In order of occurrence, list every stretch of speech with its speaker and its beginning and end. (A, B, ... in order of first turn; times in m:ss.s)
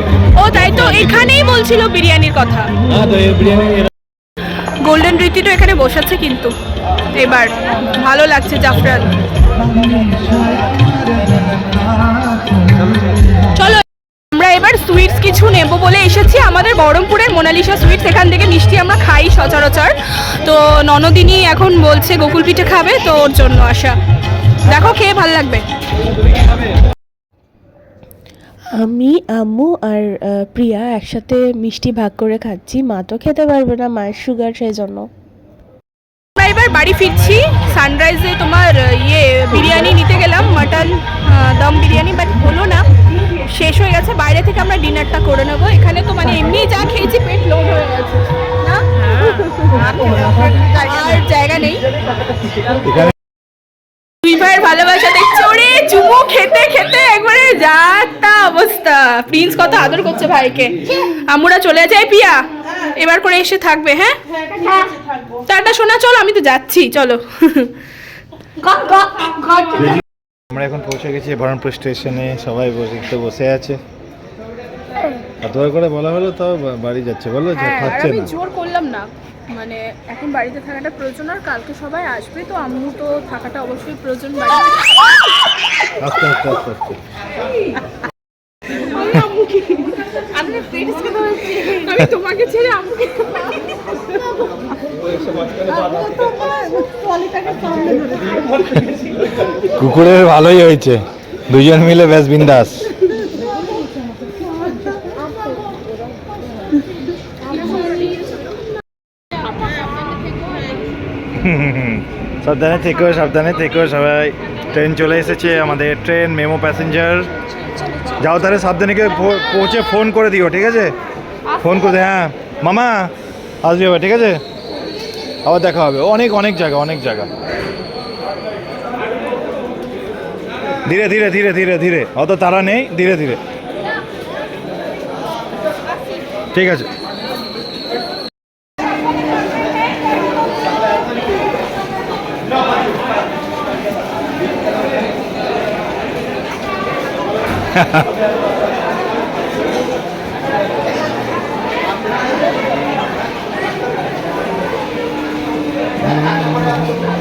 0:00.3-0:02.7 A
0:02.9-0:03.9 B
0:04.8-0:06.5 A
0:07.1-0:09.1 A
0:13.5-0:24.0 A
0:24.6-0:25.6 A
0:28.8-0:35.1 C
0:36.4-0:42.9 A
0:43.4-0:51.8 A
0:52.8-0:53.1 B
0:54.2-1:04.2 A
1:05.4-1:07.7 A
1:09.6-1:13.8 B
1:15.4-1:18.3 B
1:17.5-1:25.2 A
1:26.0-1:27.0 B
1:28.7-1:33.7 A
1:39.6-1:42.9 B
1:51.4-1:57.3 B
1:58.2-2:00.9 B
2:01.6-2:03.1 B
2:03.6-2:04.4 B
2:05.4-2:07.3 B
2:10.8-2:13.4 B
2:16.5-2:16.9 B
2:27.7-2:28.1 B